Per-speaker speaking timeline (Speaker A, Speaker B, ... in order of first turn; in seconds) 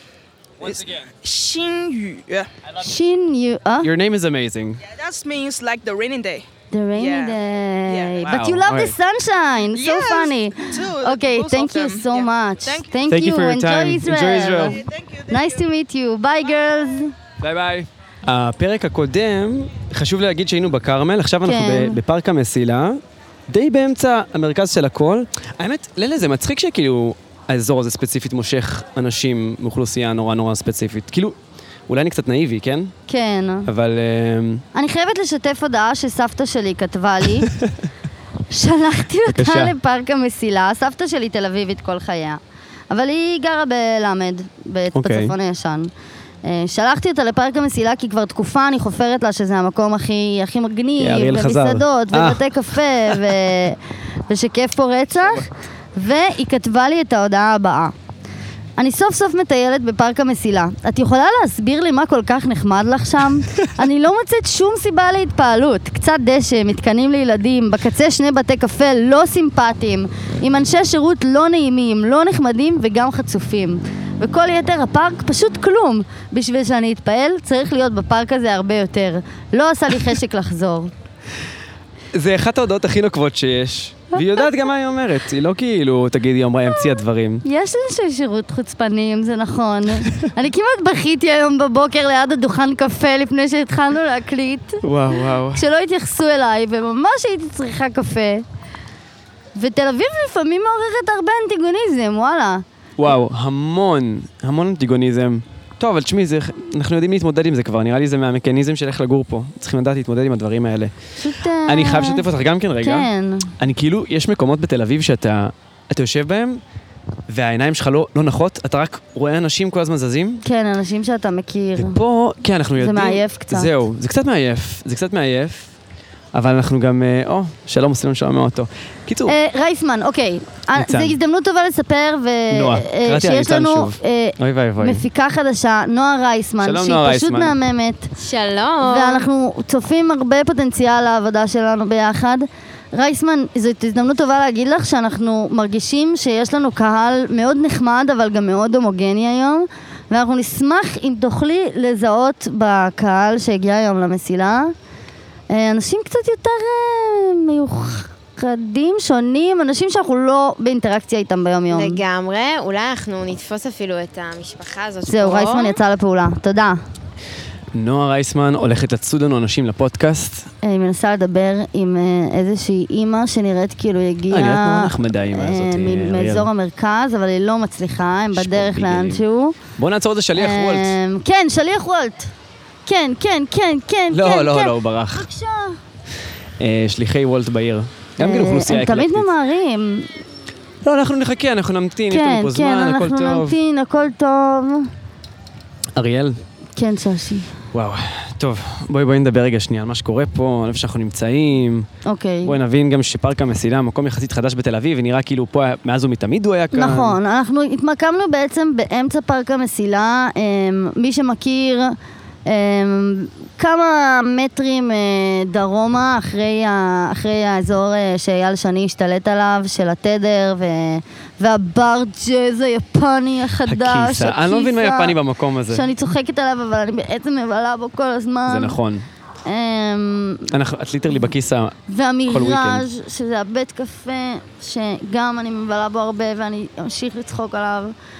Speaker A: 0.6-2.5, 4.9-8.4, 9.7-12.9, 14.7-15.6
Speaker B: 2.8-3.9, 6.7-17.1, 21.4-22.0, 33.1-33.7, 34.8-37.5, 38.5-42.4, 42.9-45.9, 46.4-57.9, 58.8-80.9, 84.1-84.4, 87.4-94.8, 95.5-98.4, 99.6-102.6, 111.2-112.2, 112.8-113.5, 120.5-122.0, 122.8-123.7, 129.3-138.1, 138.8-154.7, 155.5-162.0, 165.1-166.8, 170.6-179.6, 180.3-182.3, 182.9-185.8, 188.2-190.1, 192.1-194.9, 196.8-197.5, 202.1-202.6, 206.7-225.2, 225.7-228.8, 229.5-230.5, 231.9-237.9
Speaker C: 3.8-4.8, 8.2-8.9, 13.1-14.8, 17.4-31.4, 31.9-32.9, 33.7-34.6, 39.3-39.7, 44.9-45.4, 51.0-52.4, 82.1-87.4, 94.8-95.7, 103.0-110.9, 111.7-113.1, 113.6-116.6, 117.3-120.4, 121.8-125.7, 126.3-129.3, 130.8-131.2, 132.5-135.0, 136.6-137.6, 167.8-170.5, 174.3-176.5, 178.3-179.2, 179.8-181.0, 184.1-185.2, 186.6-189.3, 190.8-193.6, 195.9-196.4, 197.7-201.9, 202.4-207.2, 223.7-225.9, 228.5-229.1, 230.5-231.8, 232.3-232.9
Speaker D: 138.2-139.3, 161.7-165.8